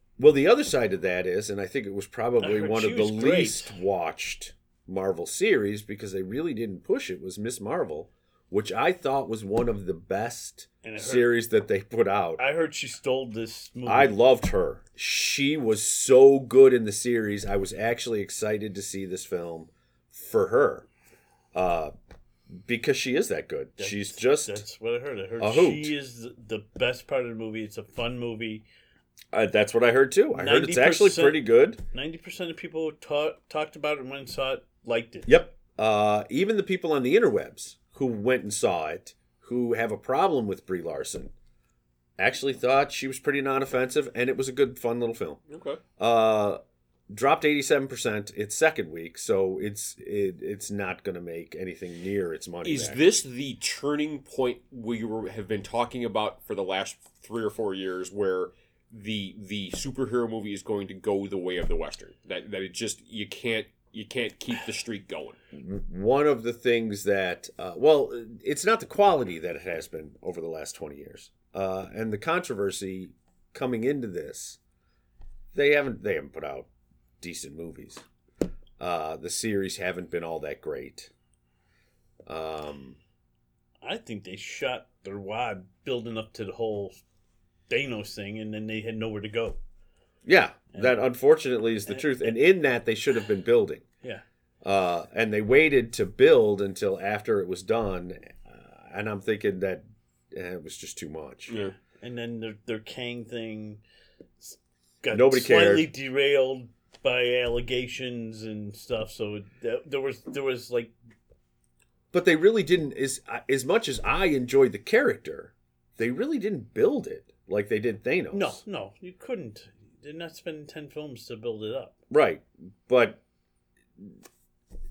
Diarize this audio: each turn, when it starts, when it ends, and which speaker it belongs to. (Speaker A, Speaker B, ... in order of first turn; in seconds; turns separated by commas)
Speaker A: 0.2-12.4, Speaker B: 2.4-3.8, Speaker B: 10.8-11.3, Speaker B: 12.4-14.2, Speaker A: 13.9-20.9, Speaker A: 21.5-21.9, Speaker A: 22.6-24.6, Speaker B: 23.8-28.6, Speaker A: 25.4-25.9, Speaker A: 29.3-31.8, Speaker B: 30.3-35.3, Speaker A: 35.3-41.3, Speaker A: 42.2-45.4, Speaker C: 45.5-45.8, Speaker A: 46.0-46.6, Speaker A: 47.1-53.0, Speaker C: 52.6-65.4, Speaker A: 65.5-74.6, Speaker A: 75.5-76.7, Speaker A: 77.2-78.0, Speaker A: 78.8-81.1, Speaker A: 82.3-83.0, Speaker B: 83.8-87.0, Speaker B: 87.7-89.6, Speaker A: 90.2-93.8, Speaker B: 90.7-91.0, Speaker B: 91.9-92.3, Speaker A: 94.6-101.5, Speaker B: 101.5-103.8, Speaker B: 104.4-110.9, Speaker A: 105.1-105.9, Speaker A: 112.1-118.6, Speaker B: 118.3-122.0, Speaker A: 122.1-123.2